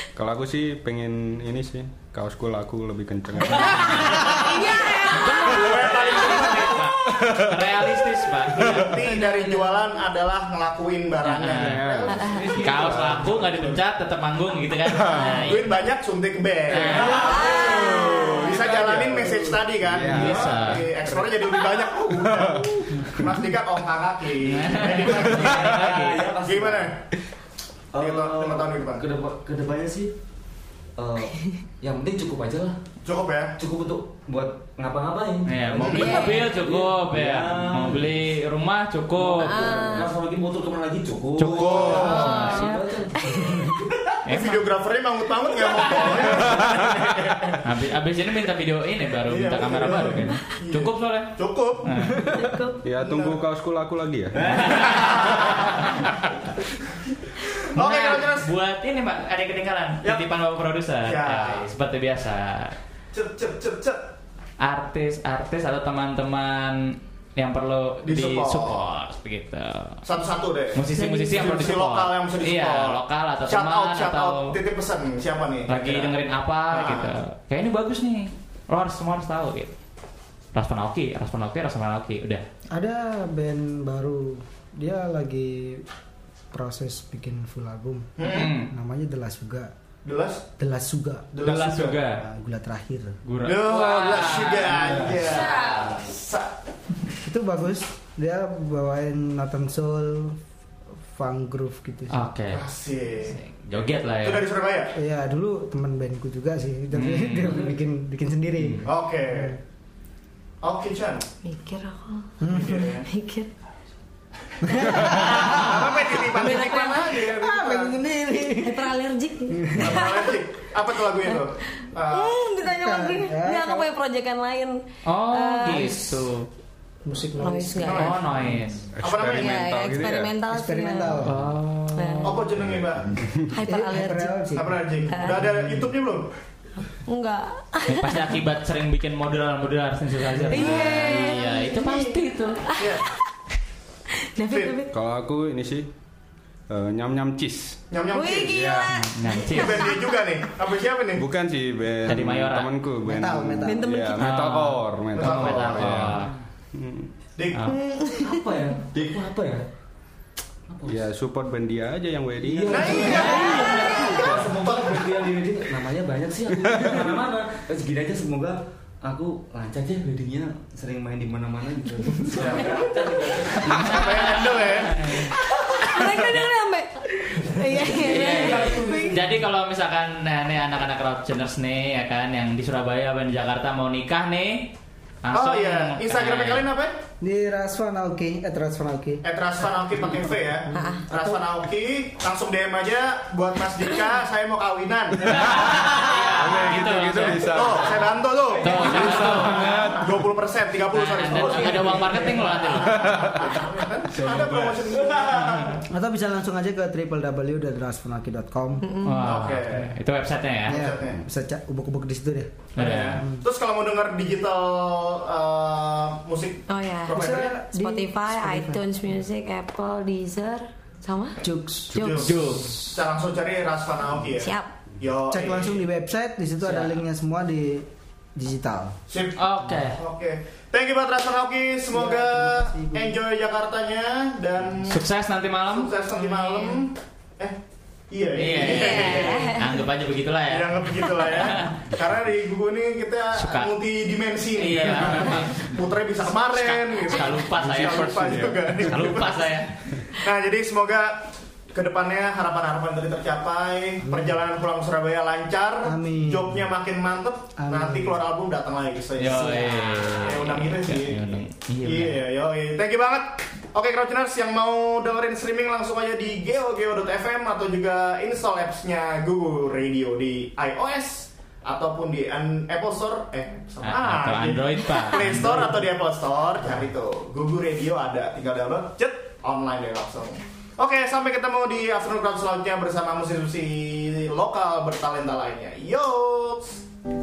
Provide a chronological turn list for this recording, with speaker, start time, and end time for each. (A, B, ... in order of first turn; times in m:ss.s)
0:00.2-0:04.3 A
0:03.8-0:04.5 B
0:04.2-0:06.9 C
0:05.0-0:09.0 B
0:05.4-0:06.9 D
0:07.0-0:07.6 A
0:08.5-0:13.8 D
0:09.0-0:09.8 C
0:11.2-0:15.8 B
0:11.5-0:13.3 A
0:12.1-0:12.6 C
0:14.9-0:15.4 A
0:15.4-0:27.0 D
0:16.7-0:17.4 B
0:16.9-0:19.6 E
0:17.2-0:18.5 C
0:19.8-0:20.8 A
0:20.0-0:20.9 B
0:22.2-0:22.6 A
0:24.4-0:26.3 B
0:25.3-0:26.9 E
0:27.9-0:30.1 E
0:28.0-0:29.0 D
0:31.0-0:32.8 E
0:33.0-0:33.6 D
0:33.6-0:38.2 E
0:35.4-0:39.9 B
0:35.8-0:36.2 D
0:35.9-0:36.4 C
0:39.2-0:43.7 E
0:39.4-0:40.1 C
0:41.4-0:42.7 B
0:41.6-0:42.2 D
0:41.9-0:43.8 C
0:44.2-0:44.7 B
0:44.2-0:47.7 D
0:45.9-0:46.2 B
0:47.6-0:52.3 B
0:49.3-0:52.1 D
0:52.3-0:52.8 C
0:52.8-0:54.9 A
0:53.0-0:53.4 D
0:54.5-0:55.8 D
0:54.8-0:55.6 B
0:57.4-0:58.5 D
0:57.7-1:02.7 B
1:01.0-1:01.6 D
1:03.1-1:04.1 D
1:04.6-1:10.0 B
1:08.0-1:08.8 D
1:10.0-1:16.1 D
1:10.7-1:14.5 B
1:11.0-1:11.4 C
1:15.7-1:19.7 B
1:16.7-1:17.1 D
1:20.5-1:22.4 B
1:22.7-1:25.8 F
1:26.5-1:29.7 F
1:28.2-1:28.5 D
1:28.2-1:28.7 B
1:30.0-1:30.4 D
1:30.6-1:31.4 F
1:31.3-1:32.1 D
1:31.4-1:32.2 B
1:32.2-1:33.2 F
1:33.2-1:36.0 B
1:33.4-1:36.5 D
1:37.2-1:40.4 F
1:41.0-1:42.2 F
1:42.1-1:42.6 B
1:42.5-1:43.4 D
1:43.2-1:44.4 B
1:44.2-1:44.9 D
1:44.9-1:49.6 F
1:46.9-1:47.6 B
1:48.8-1:49.6 D
1:50.6-1:51.2 D
1:51.4-1:52.4 C
1:52.4-1:52.9 F
1:52.5-1:53.0 D
1:53.0-1:53.5 C
1:54.6-1:56.1 F
1:54.8-1:58.0 D
1:56.3-1:57.2 C
1:57.1-1:59.0 F
1:58.6-2:00.3 C
1:59.5-2:00.1 F
1:59.7-2:02.4 D
2:01.3-2:06.3 C
2:02.6-2:03.9 F
2:05.0-2:06.4 B
2:07.0-2:08.7 F
2:07.4-2:08.1 C
2:07.8-2:08.2 D
2:07.9-2:08.9 B
2:09.0-2:10.4 A
2:09.0-2:09.7 D
2:09.3-2:11.2 C
2:10.5-2:11.7 F
2:11.2-2:12.3 B
2:12.0-2:12.4 C
2:12.2-2:13.2 D
2:12.6-2:13.5 A
2:13.5-2:14.4 C
2:13.6-2:14.9 F
2:14.5-2:16.3 D
2:15.1-2:15.5 C
2:17.1-2:18.4 C
2:17.9-2:22.7 B
2:20.5-2:21.6 C
2:20.8-2:22.2 D
2:22.7-2:23.1 C
2:22.7-2:23.0 D
2:24.4-2:24.9 C
2:24.5-2:24.8 D
2:24.9-2:25.9 A
2:26.7-2:27.8 A
2:27.9-2:28.7 D
2:28.1-2:30.1 C
2:28.4-2:29.0 A
2:28.9-2:29.9 B
2:29.4-2:31.2 D
2:31.2-2:37.1 A
2:32.1-2:32.7 B
2:33.0-2:33.9 F
2:33.6-2:34.3 C
2:34.1-2:36.3 B
2:35.2-2:36.0 D
2:37.4-2:37.7 D
2:37.7-2:38.4 C
2:38.2-2:39.6 E
2:40.7-2:41.0 E
2:40.8-2:43.2 A
2:42.4-2:54.3 E
2:42.7-2:45.1 D
2:43.2-2:43.9 C
2:46.6-2:47.1 A
2:52.3-2:55.2 D
2:53.6-2:55.3 B
2:55.2-2:59.3 C
2:57.5-2:59.4 E
2:57.9-3:04.7 B
3:05.2-3:06.7 B
3:05.3-3:07.0 D
3:07.2-3:09.2 F
3:09.2-3:15.5 D
3:10.7-3:11.4 F
3:10.7-3:11.1 C
3:15.2-3:17.9 B
3:15.3-3:18.0 A
3:17.4-3:25.8 D
3:18.6-3:19.2 E
3:18.6-3:19.9 B
3:18.9-3:20.2 A
3:20.9-3:23.4 B
3:22.8-3:23.6 A
3:24.4-3:24.8 E
3:25.3-3:25.7 B
3:25.9-3:28.8 F
3:28.8-3:29.4 C
3:29.0-3:30.8 B
3:29.2-3:29.9 D
3:30.6-3:31.2 D
3:30.7-3:33.4 F
3:32.7-3:37.5 D
3:32.8-3:33.2 B
3:36.7-3:42.3 C
3:37.1-3:38.8 F
3:41.4-3:42.5 F
3:41.9-3:45.8 D
3:42.2-3:43.0 B
3:44.4-3:44.7 C
3:45.3-3:49.0 F
3:46.6-3:47.0 B
3:49.1-3:55.0 D
3:49.4-3:50.0 B
3:51.9-3:53.2 F
3:54.8-3:56.8 B
3:55.7-3:57.6 D
3:58.1-3:59.7 D
3:58.3-4:01.7 B
3:58.5-3:59.8 C
4:00.5-4:46.8 D
4:03.3-4:03.7 B
4:04.5-4:05.7 B
4:06.5-4:09.7 B
4:07.6-4:08.8 A
4:14.0-4:14.4 F
4:15.8-4:16.7 F
4:17.6-4:18.2 F
4:19.2-4:22.3 B
4:33.8-4:35.8 B